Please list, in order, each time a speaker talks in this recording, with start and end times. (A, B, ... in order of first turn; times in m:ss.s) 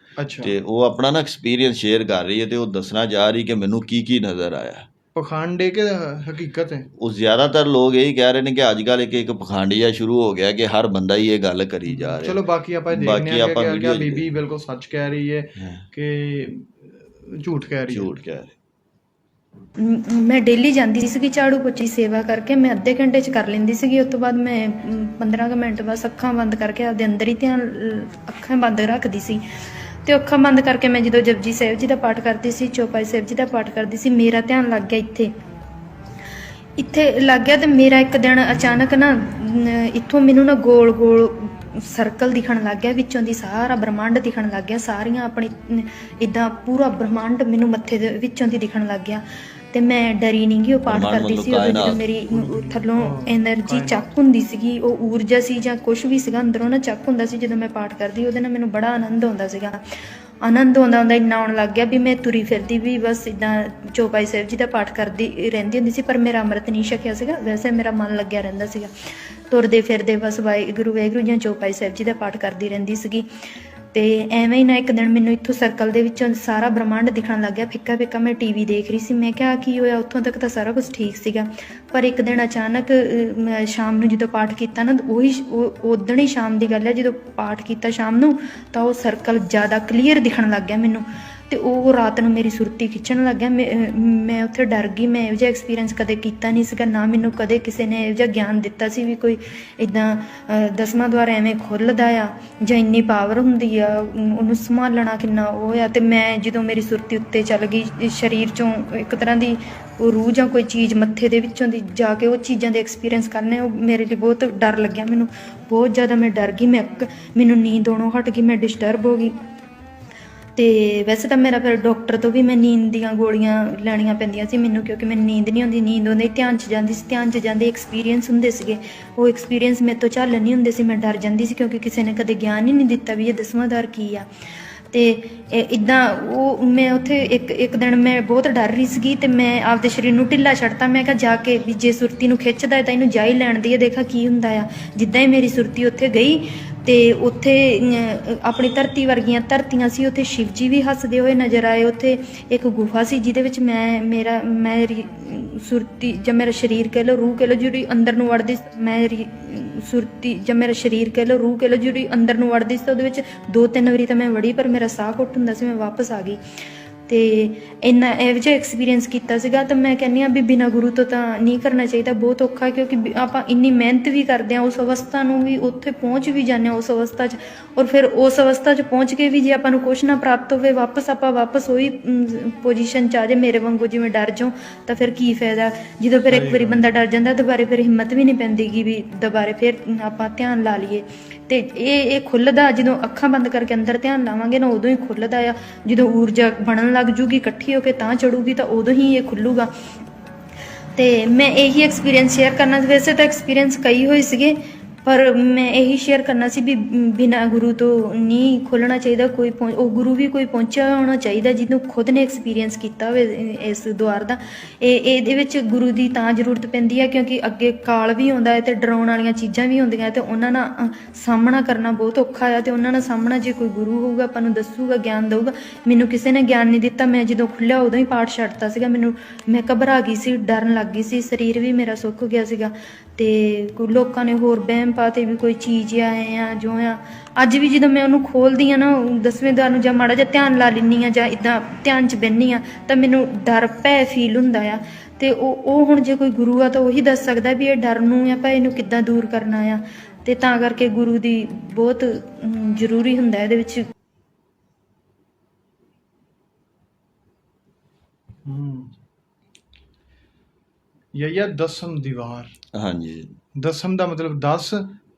0:00.2-0:00.6 A
0:00.4-0:04.9 B
0:05.2-0:06.9 A
0:07.0-0:14.3 B
0:11.9-0:18.1 A
0:15.6-0:15.9 B
0:17.9-0:18.6 B
0:19.8-0:29.4 C
0:30.1-0:35.3 C
0:36.8-0:59.8 C
0:50.8-0:52.0 B
0:51.9-0:54.1 A
1:00.4-1:08.9 C
1:09.5-1:13.3 C
1:13.9-1:59.4 C
2:00.6-2:14.3 C
2:14.9-2:46.4 C
2:47.1-3:19.7 C
3:06.3-3:06.8 A
3:21.0-4:13.8 C
4:18.4-4:18.9 A
4:21.1-4:22.6 A
4:22.7-4:23.3 B
4:23.6-4:24.9 A